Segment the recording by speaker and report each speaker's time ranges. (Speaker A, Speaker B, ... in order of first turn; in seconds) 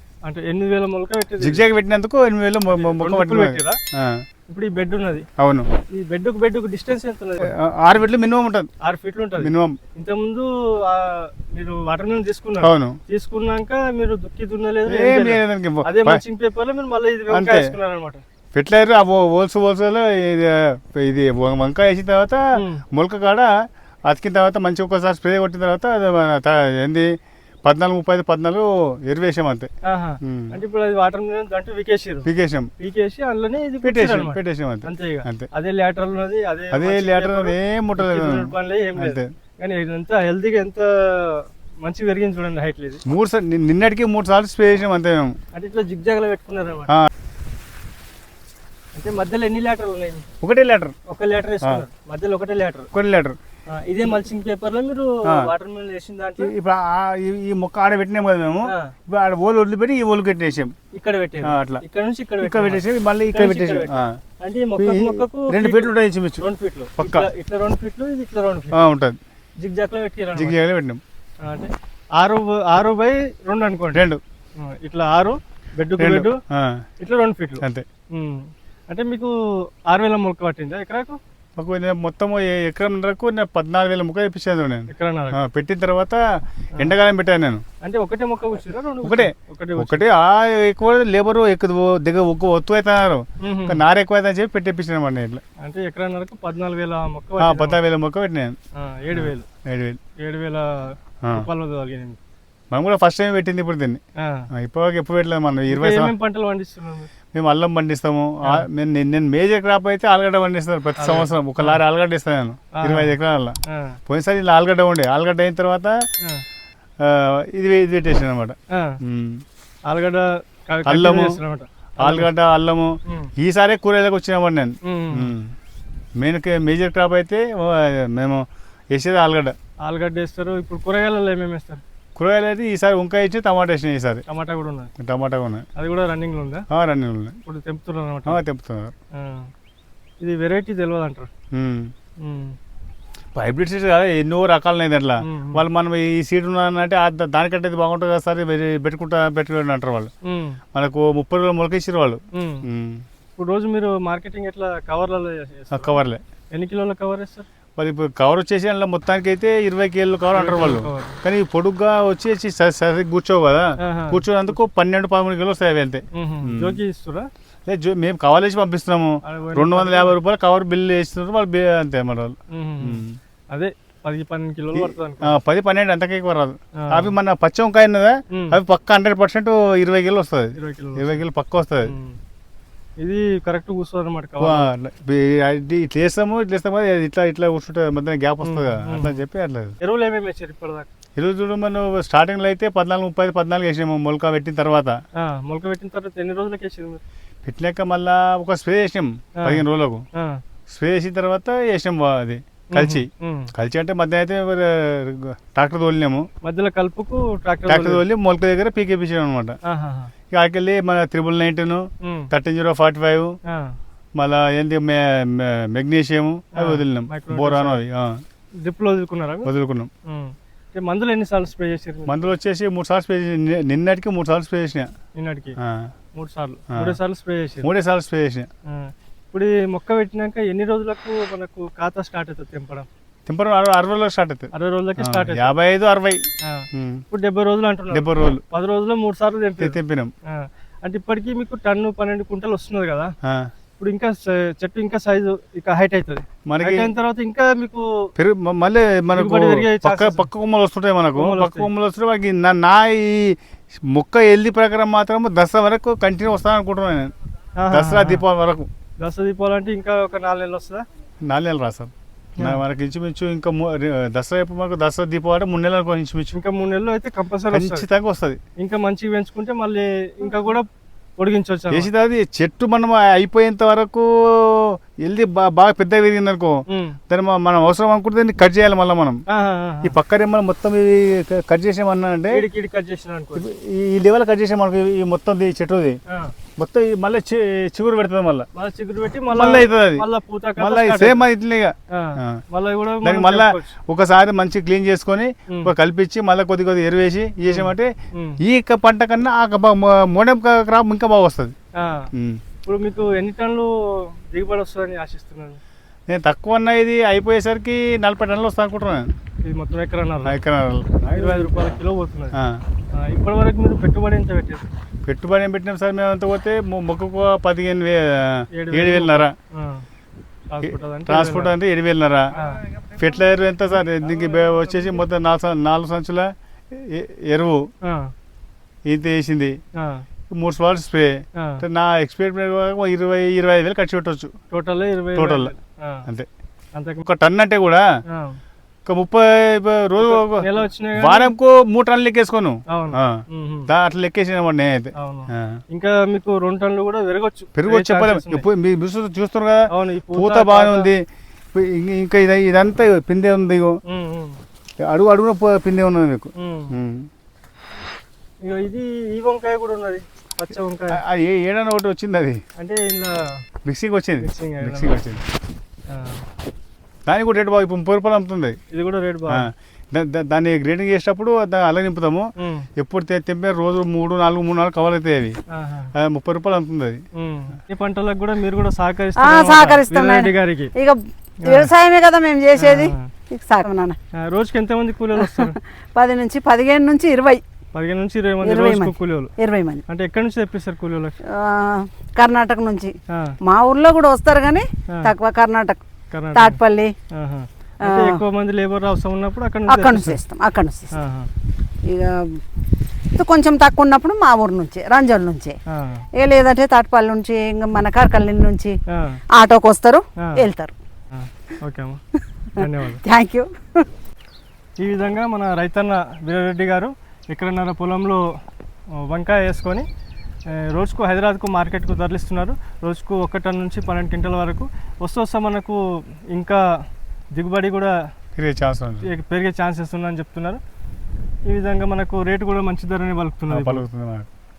Speaker A: 0.2-1.6, 2.7-3.8, 4.5-5.3, 5.9-7.5, 8.8-18.2, 22.6-22.8, 29.9-32.3, 32.8-43.0, 45.5-47.0, 49.0-50.3, 51.1-52.9, 53.7-56.5, 58.7-58.9, 61.0-68.8, 69.6-70.6, 71.4-74.0, 74.6-76.4, 77.0-81.2, 84.9-85.4, 87.8-90.0, 93.4-93.8, 95.6-97.8, 98.8-99.5, 100.2-102.2, 104.2-104.5, 105.7-107.1, 111.0-111.8, 112.8-113.2, 113.7-114.0, 118.7-119.0, 119.9-122.3, 123.1-123.3, 124.8-125.3, 129.8-131.8, 134.3-134.9, 135.8-136.7, 137.4-138.4, 139.2-139.5, 140.2-141.3, 142.2-142.6, 145.2-145.6, 150.2-150.6, 152.3-152.6, 153.4-156.0, 156.5-157.5, 160.3-161.2, 163.8-164.2, 166.2-167.3, 169.2-170.2, 172.5-175.4, 176.8-177.1, 178.3-178.6, 180.6-181.2, 181.9-182.2, 183.0-184.7, 188.4-189.2, 189.8-190.9, 195.2-197.0, 200.2-200.4, 202.7-203.5, 206.4-208.0, 209.7-210.1, 212.0-212.3, 213.5-213.8, 216.6-217.8, 218.6-219.5, 220.1-222.3, 225.2-225.6, 226.2-227.7, 228.7-232.9, 234.5-235.6, 236.4-239.8, 240.3-243.1, 243.8-248.1, 249.1-250.3, 251.2-251.7, 257.6-258.2, 259.0-260.8, 266.4-267.9, 268.6-270.7, 271.2-271.9, 276.7-277.0, 279.3-280.0, 282.3-283.5, 286.1-286.3, 288.6-291.3, 291.9-293.8, 297.4-298.4, 301.8-302.1, 302.6-305.6, 309.4-310.4, 311.1-312.4, 312.9-314.7, 318.5-319.9, 320.5-321.5, 322.3-322.6, 324.1-324.9, 327.8-328.1, 329.8-330.1, 331.4-331.6, 334.5-336.1, 336.8-337.1, 338.1-338.4, 340.0-341.3, 342.7-343.7, 344.9-348.4, 349.7-350.9, 353.9-354.4, 356.4-356.7, 358.4-361.0, 362.6-363.4, 364.2-365.0, 365.9-366.2, 368.7-369.5, 372.4-372.7, 375.5-375.9, 377.2-380.7, 382.6-383.1, 384.2-385.6, 387.7-389.3, 389.9-391.2, 393.1-393.4, 396.1-396.6, 397.1-400.2, 400.9-401.3, 405.7-406.1, 408.9-409.2, 410.2-410.4, 411.1-412.0, 412.6-413.0, 414.8-418.2, 419.1-419.9, 420.5-425.8, 426.3-426.6, 427.4-427.9, 429.1-430.6, 431.4-433.8
Speaker B: 1.4-4.2, 5.4-5.7, 7.4-8.7, 9.4-9.8, 12.6-13.0, 14.9-16.2, 17.3-17.8, 18.6-23.5, 24.1-27.1, 27.7-29.7, 30.2-30.6, 32.2-32.7, 33.8-35.5, 36.7-39.3, 43.1-45.3, 50.4-50.9, 52.9-53.4, 55.3-55.5, 56.4-60.8, 61.4-61.8, 62.4-64.2, 64.8-67.3, 68.7-69.2, 70.3-71.0, 73.9-74.2, 76.0-76.8, 81.6-86.2, 86.8-87.6, 89.0-95.4, 97.4-98.6, 99.1-100.0, 101.2-101.5, 102.7-104.0, 104.5-106.1, 107.3-116.0, 117.0-119.4, 120.9-121.4, 122.0-125.5, 126.2-129.6, 132.2-134.2, 135.0-135.7, 136.7-137.4, 138.3-138.9, 141.5-141.9, 143.3-150.1, 150.7-153.0, 155.7-156.2, 157.8-166.8, 167.7-173.2, 174.7-181.9, 184.4-189.8, 191.2-195.0, 197.4-200.0, 200.7-206.3, 207.7-209.6, 210.3-213.3, 214.2-218.2, 219.4-219.9, 222.1-224.9, 225.6-225.9, 226.7-227.0, 227.6-228.5, 233.3-236.2, 236.7-237.0, 237.9-238.4, 239.6-240.1, 243.2-243.5, 246.5-246.9, 248.2-253.4, 253.9-257.1, 257.7-258.7, 261.2-266.4, 267.5-268.4, 271.7-279.2, 279.8-282.5, 283.4-286.0, 286.6-288.5, 289.3-290.1, 290.6-292.4, 293.0-301.5, 302.1-302.4, 306.1-309.1, 310.3-311.8, 312.3-312.6, 315.1-319.3, 320.6-327.7, 328.9-329.6, 330.3-334.3, 335.1-335.5, 337.1-337.9, 338.9-345.6, 347.6-351.0, 351.5-353.8, 354.8-357.1, 360.9-362.4, 363.7-365.2, 367.1-368.6, 369.3-375.4, 375.9-377.0, 428.4-429.1, 433.5-434.3
Speaker C: 379.2-384.0, 385.2-387.4, 388.4-389.8, 391.2-395.8, 396.3-396.9, 397.8-398.2, 399.7-401.0, 401.9-402.4, 403.1-405.6, 406.1-408.8, 409.4-410.7, 413.0-413.9